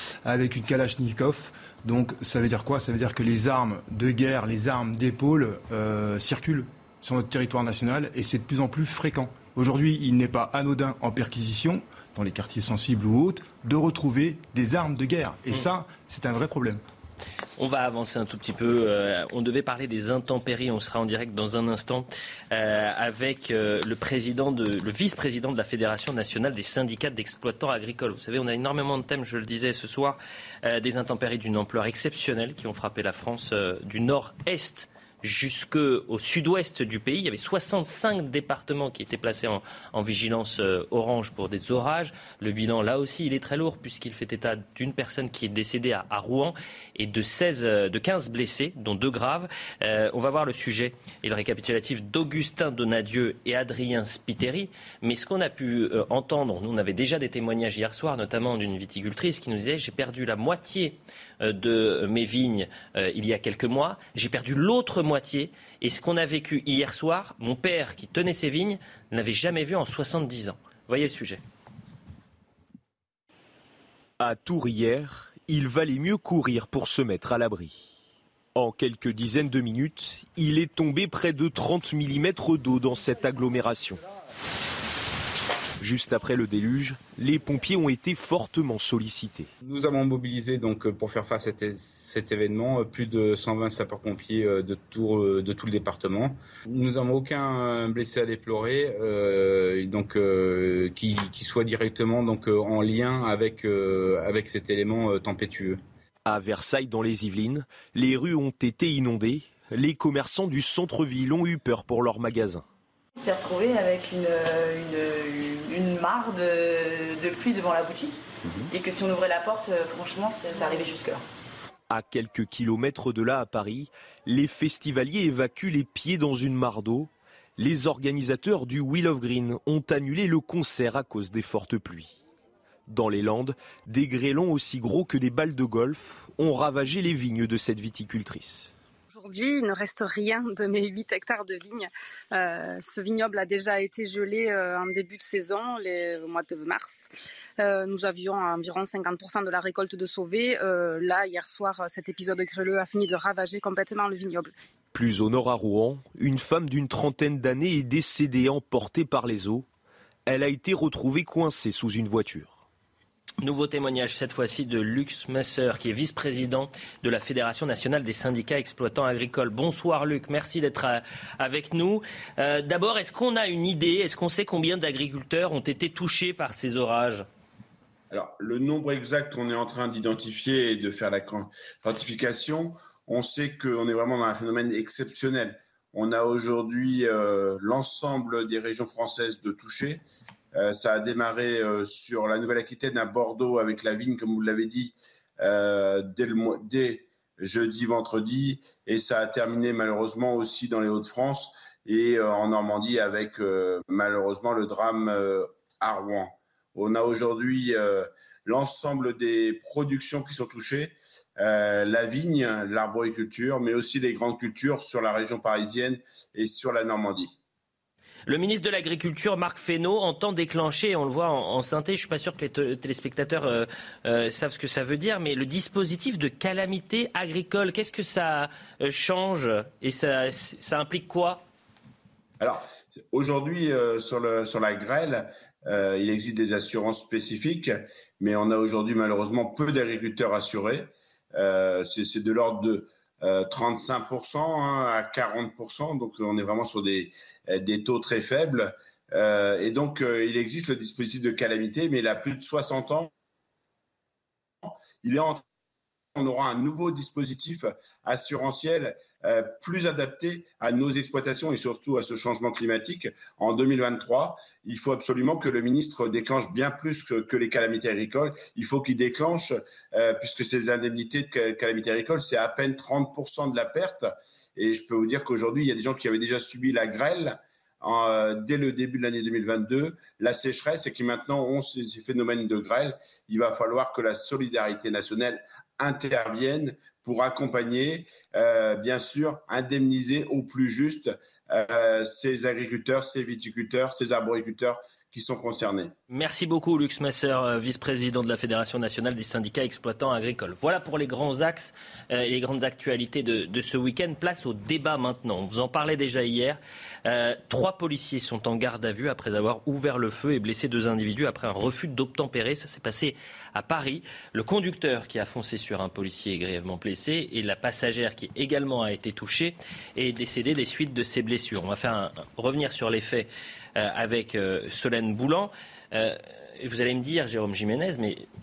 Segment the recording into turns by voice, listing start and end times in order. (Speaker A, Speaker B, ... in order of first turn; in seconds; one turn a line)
Speaker A: 0.2-16.8
Speaker B: 17.6-71.4
Speaker C: 74.2-77.9
Speaker C: 78.5-84.0
Speaker C: 85.8-89.5
Speaker D: 89.6-105.8
Speaker C: 106.2-112.6
Speaker E: 113.2-118.2
Speaker E: 118.7-121.2
Speaker C: 121.9-132.2
Speaker C: 132.9-138.7
Speaker F: 139.1-154.5
Speaker C: 154.9-159.7
Speaker C: 160.3-162.6
Speaker B: 163.4-177.2
Speaker G: 178.1-190.0
Speaker G: 190.6-217.3
Speaker B: 218.3-231.4
Speaker G: 232.4-253.1
Speaker G: 254.6-255.4
Speaker G: 256.1-295.9
Speaker B: 296.1-328.2